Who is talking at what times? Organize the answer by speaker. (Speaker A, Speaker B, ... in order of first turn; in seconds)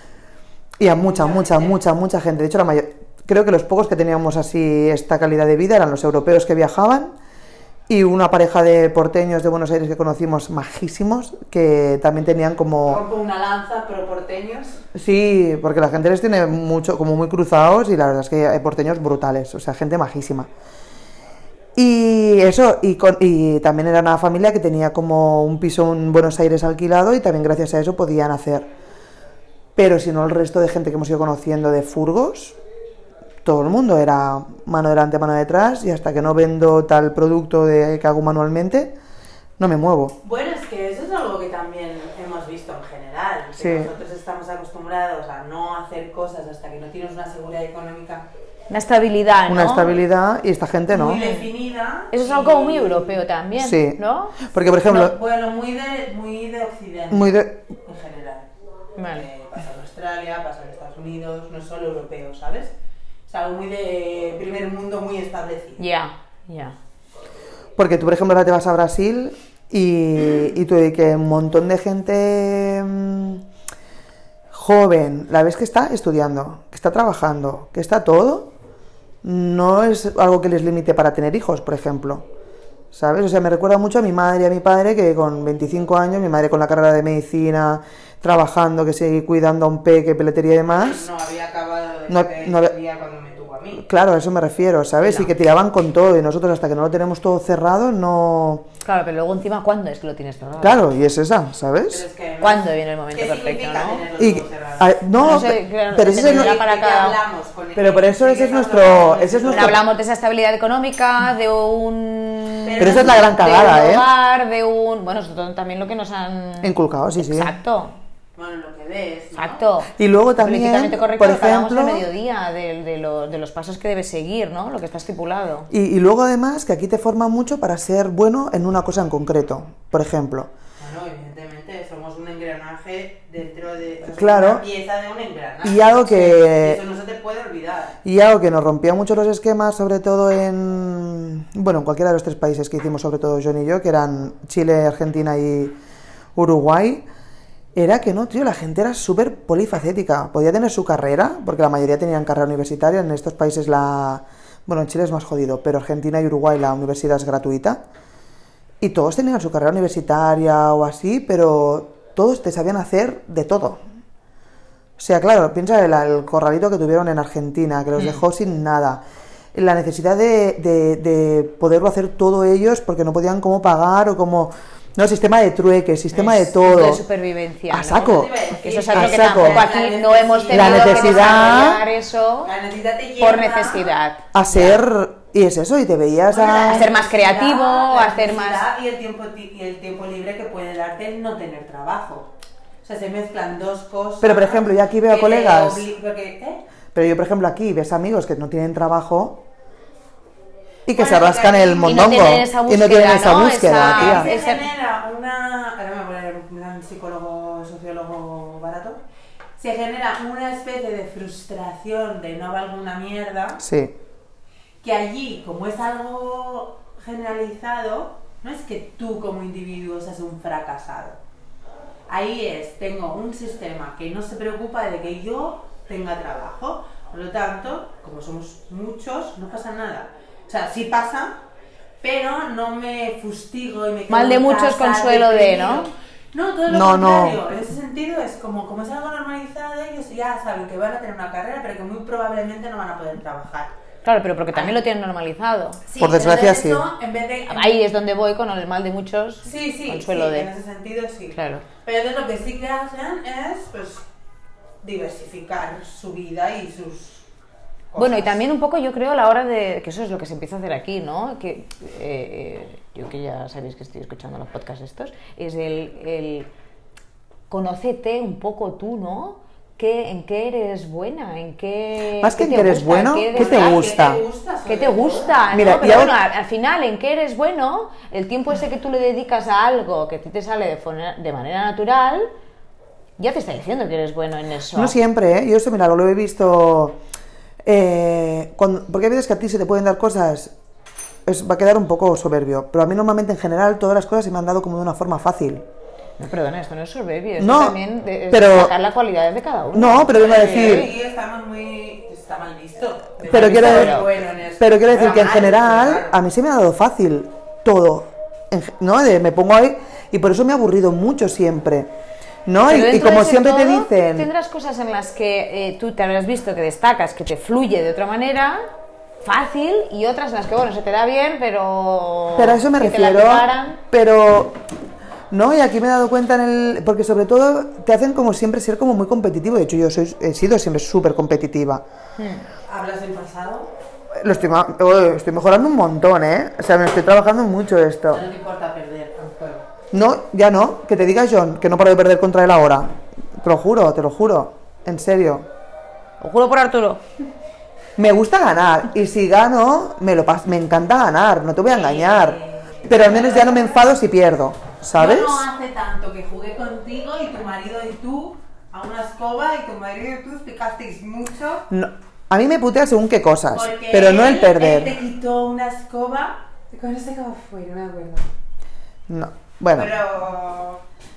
Speaker A: 0.8-7.2, 7.9-13.0, 14.9-20.5, 21.8-28.7, 29.8-32.6, 33.4-39.0, 39.6-40.2, 43.6-43.9, 49.5-51.2, 53.6-55.2, 57.1-57.6, 67.8-73.4, 74.5-78.5, 79.2-82.3, 82.9-91.1, 92.1-92.7, 93.8-98.7, 100.6-102.1, 104.2-106.6, 107.8-109.8, 112.8-114.1, 116.6-117.5, 120.0-122.1, 125.7-130.5, 134.1-134.6, 135.6-136.8, 138.1-145.8, 146.4-147.1, 147.8-157.8, 158.8-163.8, 165.0-169.0, 169.5-177.0, 177.7-179.7, 180.5-181.8, 184.3-186.9, 194.2-195.9, 196.9-199.4, 200.9-204.3, 213.6-213.9, 236.7-237.4, 246.0-246.9, 272.2-274.2, 275.5-276.1, 284.7-287.0, 287.6-290.5, 291.3-295.6, 297.4-297.8, 298.3-298.7, 299.7-300.9, 303.3-311.9, 312.5-314.3, 322.4-324.6, 325.3-331.8, 334.1-338.3, 339.9-345.5, 348.0-355.4, 361.7-365.0, 369.1-369.9
Speaker B: 0.9-1.8, 12.9-14.8, 40.2-48.3, 50.9-53.2, 54.8-58.5, 59.1-62.7, 63.3-65.8, 90.7-93.8, 101.9-105.0, 106.1-109.8, 112.7-113.3, 118.4-119.7, 130.8-138.0, 177.8-181.8, 182.4-183.9, 186.3-192.3, 192.8-196.6, 200.9-202.3, 203.7-209.0, 209.6-213.6, 214.8-221.2, 222.1-231.4, 232.0-243.7, 245.9-247.8, 249.4-254.1, 254.8-257.2, 257.9-258.4, 273.3-275.5, 300.1-306.2, 332.7-333.7, 338.1-339.7, 351.7-353.9, 354.9-361.7, 363.5-368.3, 369.7-370.8
Speaker C: 48.7-50.0, 51.1-51.5, 52.1-54.4, 59.0-59.3, 65.8-66.8, 95.0-95.3, 98.8-100.8, 102.4-104.1, 105.2-107.2, 109.5-118.0, 119.4-125.7, 176.1-178.1, 178.6-182.5, 183.2-184.8, 186.6-188.7, 201.8-204.7, 234.1-235.9, 244.1-245.8, 247.5-250.5, 251.3-251.7, 258.0-266.5, 267.5-273.9, 274.7-282.3, 283.2-284.9, 296.2-300.9, 303.2-304.1, 312.6-318.6, 319.2-323.8, 332.2-332.5, 346.2-347.0